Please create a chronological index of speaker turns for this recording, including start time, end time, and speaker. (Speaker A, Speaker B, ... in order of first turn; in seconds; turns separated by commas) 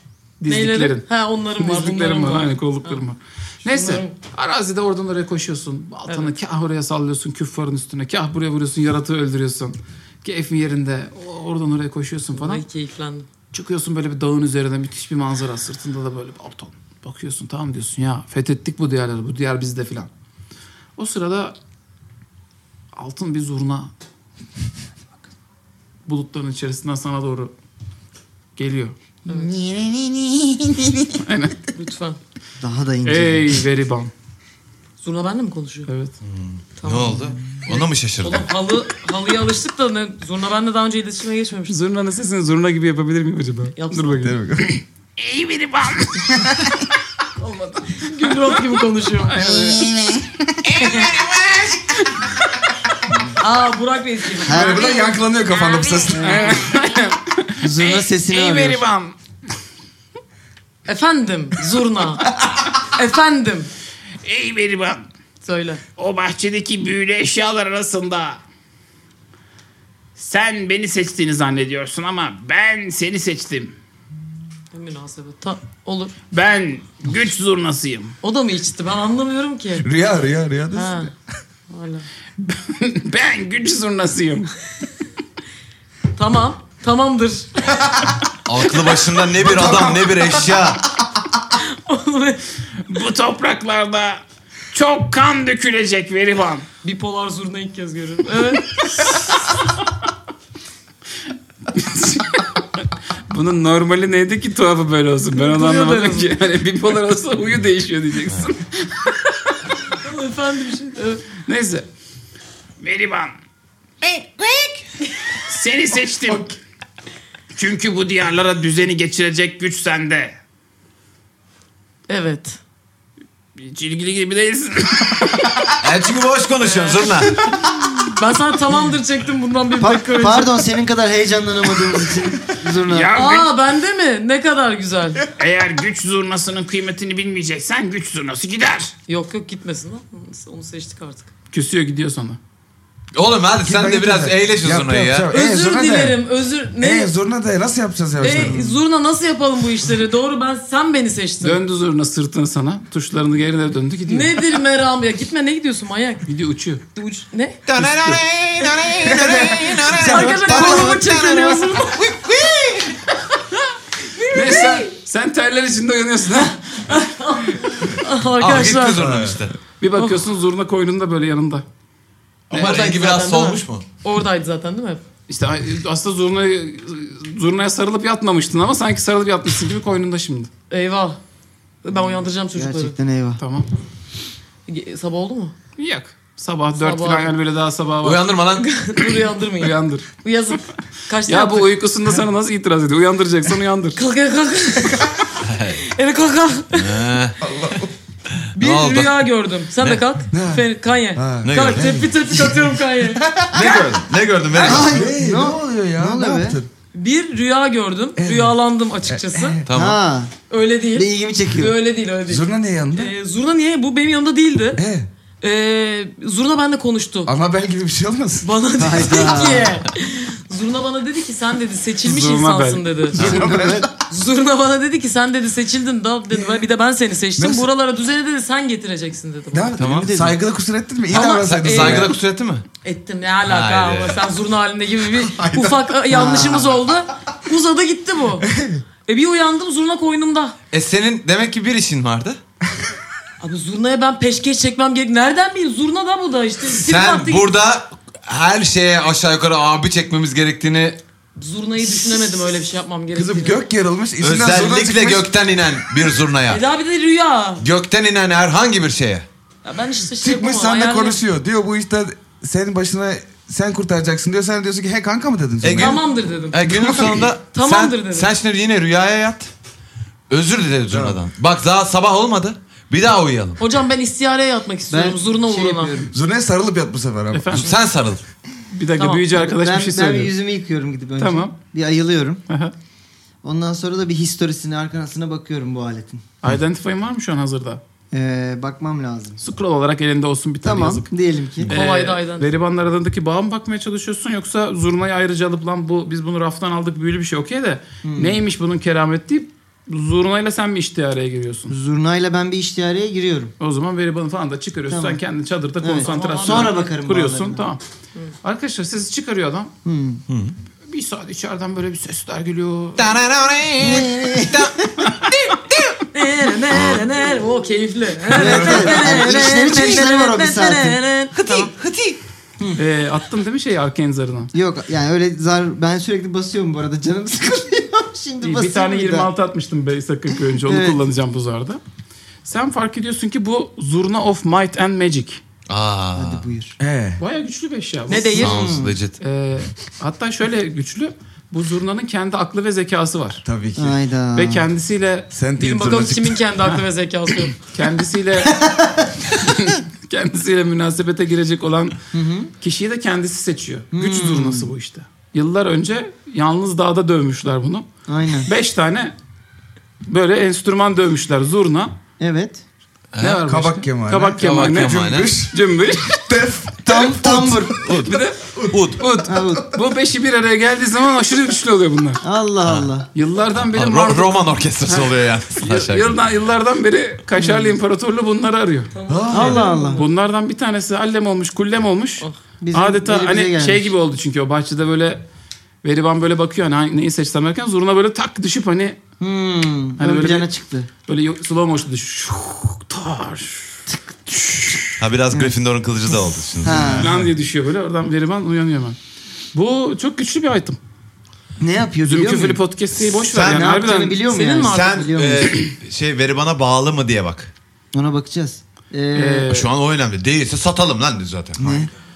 Speaker A: 0.4-12.6, Speaker B: 0.5-3.0, Speaker B: 3.7-4.2, Speaker B: 6.1-6.4, Speaker B: 12.3-13.3, Speaker A: 13.5-20.1, Speaker A: 21.0-21.6, Speaker A: 22.9-23.9, Speaker A: 26.1-27.5, Speaker A: 28.6-29.0, Speaker B: 29.3-29.6, Speaker C: 29.7-30.3, Speaker A: 31.2-31.6, Speaker B: 31.7-32.2, Speaker D: 32.6-33.6, Speaker A: 33.0-34.1, Speaker B: 35.0-35.9, Speaker A: 35.9-36.1, Speaker E: 36.2-38.5, Speaker B: 36.8-41.8, Speaker A: 41.7-46.5, Speaker B: 43.8-44.4, Speaker C: 44.2-44.7, Speaker B: 47.4-49.9, Speaker A: 48.2-48.6, Speaker A: 49.3-50.0, Speaker B: 50.7-51.2, Speaker A: 50.7-52.2, Speaker B: 53.4-56.6, Speaker D: 54.4-55.0, Speaker C: 54.4-56.6, Speaker D: 56.1-56.7, Speaker A: 56.2-59.1, Speaker D: 57.6-58.8, Speaker B: 60.9-63.7, Speaker A: 64.2-65.1, Speaker B: 65.4-65.8, Speaker A: 66.0-68.4, Speaker A: 70.2-73.7, Speaker B: 74.7-76.2, Speaker A: 76.3-78.2, Speaker B: 78.2-79.9, Speaker C: 79.8-81.1, Speaker B: 80.7-81.1, Speaker B: 81.7-82.1, Speaker A: 82.4-84.5, Speaker B: 86.2-87.6, Speaker C: 87.8-88.1, Speaker E: 88.5-90.9, Speaker C: 89.4-90.6, Speaker B: 91.6-92.4, Speaker A: 92.9-96.7, Speaker B: 96.8-99.7, Speaker A: 101.7-102.5, Speaker A: 103.3-109.6, Speaker B: 105.3-106.3, Speaker B: 109.9-111.2, Speaker A: 111.5-111.9, Speaker A: 112.8-113.3, Speaker A: 115.4-116.5, Speaker A: 117.5-120.4, Speaker B: 122.1-122.6, Speaker A: 123.6-125.7, Speaker E: 125.8-127.3, Speaker B: 126.7-130.7, Speaker D: 129.8-133.2, Speaker A: 132.9-133.5, Speaker B: 133.1-135.3, Speaker A: 135.4-138.9, Speaker B: 139.1-141.3, Speaker A: 141.5-142.4, Speaker E: 143.1-145.3, Speaker C: 143.6-146.2, Speaker B: 145.3-147.1, Speaker C: 146.8-148.6, Speaker B: 148.2-151.6, Speaker D: 148.2-148.8, Speaker A: 151.4-154.4, Speaker B: 154.1-156.3, Speaker A: 156.3-156.8, Speaker B: 156.9-157.6, Speaker E: 157.7-163.0, Speaker A: 157.8-158.2, Speaker C: 159.1-159.9, Speaker D: 159.9-161.2, Speaker B: 160.0-162.0, Speaker B: 164.2-164.9, Speaker A: 164.2-167.0, Speaker B: 166.9-169.0, Speaker E: 168.4-169.6, Speaker C: 168.9-169.4, Speaker A: 169.8-171.7, Speaker B: 170.0-170.2, Speaker E: 172.5-173.9, Speaker A: 172.5-172.8, Speaker B: 172.5-175.0, Speaker A: 175.3-180.5, Speaker B: 180.7-181.2, Speaker B: 181.8-183.0, Speaker D: 182.5-183.4, Speaker A: 183.4-183.7, Speaker B: 184.7-185.6, Speaker A: 185.8-188.2, Speaker B: 186.8-187.3, Speaker E: 188.0-188.7, Speaker B: 188.6-191.8, Speaker A: 189.6-190.1, Speaker A: 191.3-194.0, Speaker B: 194.0-195.2, Speaker E: 195.4-195.8, Speaker B: 195.8-197.1, Speaker E: 196.7-197.4, Speaker C: 197.4-197.9, Speaker E: 198.4-200.0, Speaker B: 198.6-203.2, Speaker C: 200.3-203.9, Speaker E: 201.4-202.0, Speaker E: 203.5-205.1, Speaker C: 204.5-206.7, Speaker D: 204.6-206.6, Speaker B: 206.9-209.6, Speaker C: 208.2-208.6, Speaker C: 209.1-209.7, Speaker E: 209.7-210.0, Speaker D: 209.7-210.4, Speaker B: 210.5-214.8, Speaker D: 210.9-211.8, Speaker C: 212.3-213.1, Speaker C: 214.8-215.1, Speaker B: 215.4-217.3, Speaker C: 217.3-219.4, Speaker B: 218.4-223.4, Speaker D: 218.8-219.8, Speaker A: 222.0-222.9, Speaker C: 223.1-223.9, Speaker D: 223.2-223.9, Speaker B: 224.0-229.8, Speaker C: 226.3-226.6, Speaker C: 227.4-227.7, Speaker C: 229.5-232.2, Speaker E: 229.8-230.3, Speaker B: 231.1-232.2, Speaker E: 231.1-232.7, Speaker B: 232.8-238.5, Speaker E: 233.4-234.3, Speaker C: 235.3-235.8, Speaker D: 236.1-236.8, Speaker C: 238.4-238.8, Speaker B: 239.1-240.6, Speaker E: 240.7-242.4, Speaker B: 243.4-247.5, Speaker E: 246.7-251.0, Speaker B: 251.4-253.6, Speaker C: 253.1-255.3, Speaker E: 254.2-256.6, Speaker B: 256.5-257.6, Speaker E: 257.6-259.3, Speaker B: 259.6-261.2, Speaker C: 260.2-266.0, Speaker E: 265.6-269.5, Speaker B: 265.8-266.6, Speaker C: 266.6-267.3, Speaker B: 267.4-268.3, Speaker E: 270.3-273.6, Speaker C: 270.9-271.2, Speaker B: 273.6-276.1, Speaker D: 274.9-276.1, Speaker C: 276.1-277.7, Speaker A: 277.3-277.7, Speaker E: 277.5-278.2, Speaker A: 278.7-280.3, Speaker B: 279.0-279.3, Speaker D: 279.3-282.4, Speaker A: 281.2-281.6, Speaker A: 282.5-282.7, Speaker D: 283.4-286.2, Speaker A: 286.4-287.8, Speaker D: 288.1-289.4, Speaker A: 289.4-291.1, Speaker D: 290.6-291.7, Speaker A: 291.7-301.7, Speaker B: 291.7-292.5, Speaker D: 298.0-298.4, Speaker D: 301.7-303.5, Speaker A: 303.6-307.8, Speaker D: 304.9-305.2, Speaker D: 305.8-307.6, Speaker B: 306.0-306.9, Speaker A: 308.4-309.7, Speaker D: 309.9-310.2, Speaker E: 310.3-310.6, Speaker A: 310.9-313.2, Speaker E: 313.0-316.0, Speaker D: 313.8-314.9, Speaker B: 316.1-321.7, Speaker E: 316.7-317.1, Speaker D: 318.3-321.0, Speaker C: 318.4-319.2, Speaker E: 321.4-322.2, Speaker A: 322.8-324.5, Speaker D: 324.5-329.3, Speaker A: 328.4-331.8, Speaker D: 330.6-331.0, Speaker A: 332.4-335.4, Speaker E: 335.7-336.5, Speaker D: 336.2-336.8, Speaker C: 336.8-337.2, Speaker A: 337.2-338.5, Speaker B: 338.1-338.8, Speaker D: 338.4-339.0, Speaker E: 338.4-339.2, Speaker A: 339.2-343.4, Speaker C: 343.4-344.0, Speaker D: 343.8-344.7, Speaker A: 344.4-345.3, Speaker C: 345.3-346.4, Speaker B: 345.6-347.6, Speaker A: 347.7-348.6, Speaker D: 348.6-348.9, Speaker A: 349.3-352.0, Speaker D: 352.1-352.5, Speaker A: 352.6-357.9, Speaker D: 353.9-354.7, Speaker D: 358.1-358.5, Speaker A: 358.4-359.1, Speaker A: 360.1-361.9, Speaker D: 362.2-362.6, Speaker E: 363.1-363.4, Speaker A: 363.2-366.2, Speaker C: 363.4-367.7, Speaker E: 364.4-365.3, Speaker D: 366.9-367.8, Speaker E: 367.7-369.0, Speaker A: 368.0-372.2, Speaker C: 368.5-368.8, Speaker D: 369.2-369.7, Speaker D: 372.2-373.1, Speaker E: 372.6-372.9, Speaker A: 373.1-378.9, Speaker E: 373.6-376.2, Speaker D: 377.4-377.7, Speaker B: 378.9-380.1, Speaker C: 379.1-379.7, Speaker D: 379.3-380.0, Speaker A: 379.9-385.2, Speaker D: 382.6-383.9, Speaker A: 385.8-389.0, Speaker D: 389.2-390.9, Speaker A: 390.0-390.5, Speaker A: 391.1-394.8, Speaker E: 395.0-397.2, Speaker D: 396.6-397.1, Speaker A: 397.0-399.0, Speaker A: 399.5-400.8, Speaker D: 401.6-402.6, Speaker A: 402.0-404.2, Speaker D: 403.3-405.6, Speaker E: 403.3-403.8, Speaker B: 404.3-405.1, Speaker E: 404.6-407.5, Speaker D: 407.9-409.5, Speaker A: 409.1-409.7, Speaker E: 409.5-411.9, Speaker D: 411.6-411.9